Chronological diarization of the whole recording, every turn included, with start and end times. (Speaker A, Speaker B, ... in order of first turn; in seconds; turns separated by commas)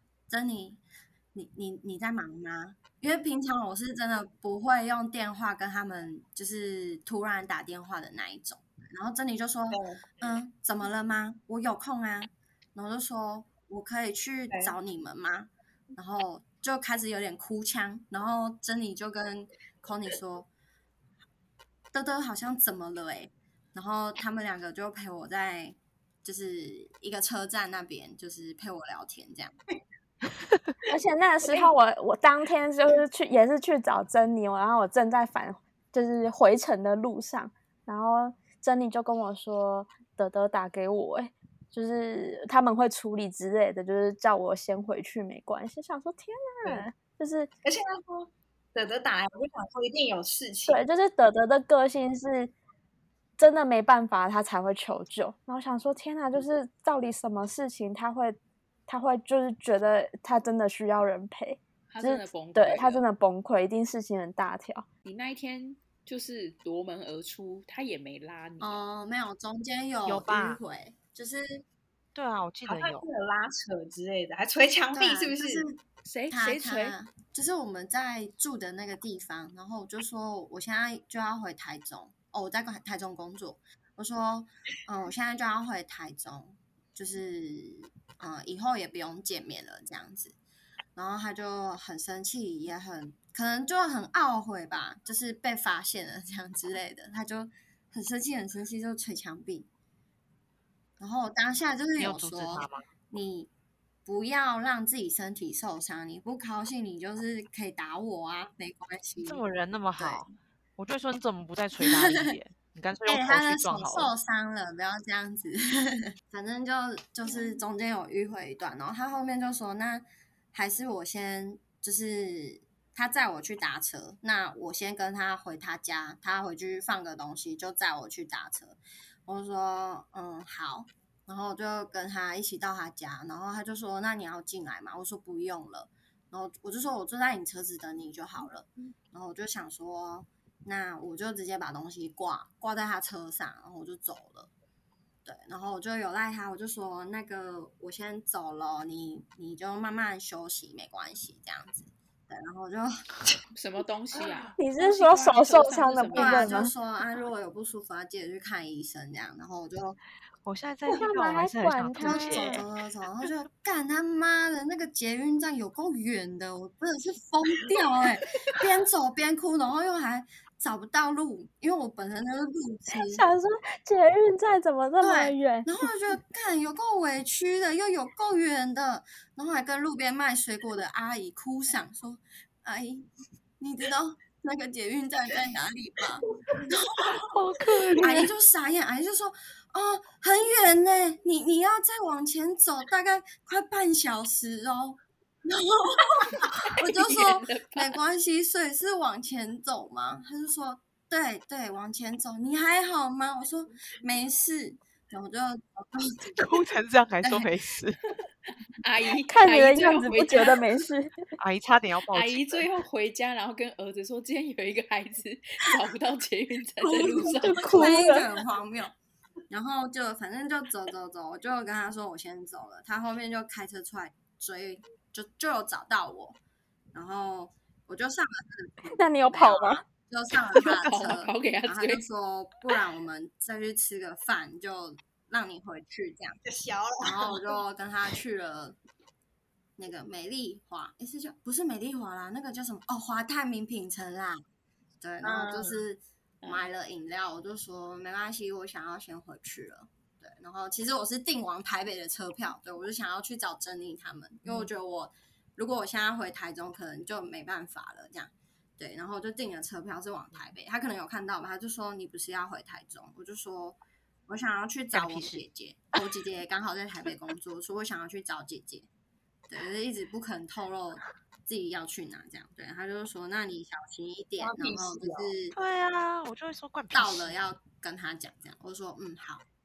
Speaker A: 0.3-0.8, Speaker A: 1.3-20.5, Speaker B: 9.7-10.1, Speaker A: 21.9-29.6, Speaker C: 30.9-47.5, Speaker B: 47.6-50.8, Speaker C: 50.7-52.5, Speaker C: 53.4-64.8, Speaker D: 61.9-63.0, Speaker D: 65.0-68.8, Speaker A: 68.6-71.6, Speaker E: 70.1-70.6, Speaker E: 72.1-73.1, Speaker B: 72.7-75.7, Speaker A: 74.9-90.4, Speaker D: 76.0-77.0, Speaker A: 91.0-99.7, Speaker A: 101.0-103.5, Speaker E: 102.0-102.8, Speaker A: 104.0-109.4, Speaker E: 109.2-110.3, Speaker A: 110.0-110.2, Speaker E: 110.8-114.1, Speaker A: 111.8-112.4, Speaker A: 113.0-144.5, Speaker A: 145.2-153.0, Speaker D: 153.5-156.6, Speaker C: 154.6-156.7, Speaker A: 156.1-160.0, Speaker E: 160.4-162.7, Speaker C: 160.9-162.7, Speaker A: 162.0-173.2, Speaker C: 173.0-175.7, Speaker A: 175.0-183.1, Speaker A: 183.6-187.4, Speaker E: 187.3-188.3, Speaker A: 187.9-206.5, Speaker D: 196.9-198.0, Speaker E: 206.4-208.0, Speaker A: 207.2-207.5, Speaker D: 208.8-210.6, Speaker C: 209.3-211.2, Speaker E: 211.4-212.7, Speaker D: 212.1-217.7, Speaker A: 216.8-219.0, Speaker C: 217.4-218.3, Speaker A: 219.5-226.4, Speaker A: 226.9-236.4, Speaker C: 228.9-229.8, Speaker D: 230.7-232.0, Speaker B: 236.4-237.6, Speaker A: 237.0-238.8, Speaker A: 239.8-244.4, Speaker A: 245.0-268.9, Speaker B: 245.2-245.8, Speaker E: 264.9-265.4, Speaker A: 269.5-275.6, Speaker B: 274.4-275.3, Speaker E: 275.5-277.4, Speaker A: 276.9-279.4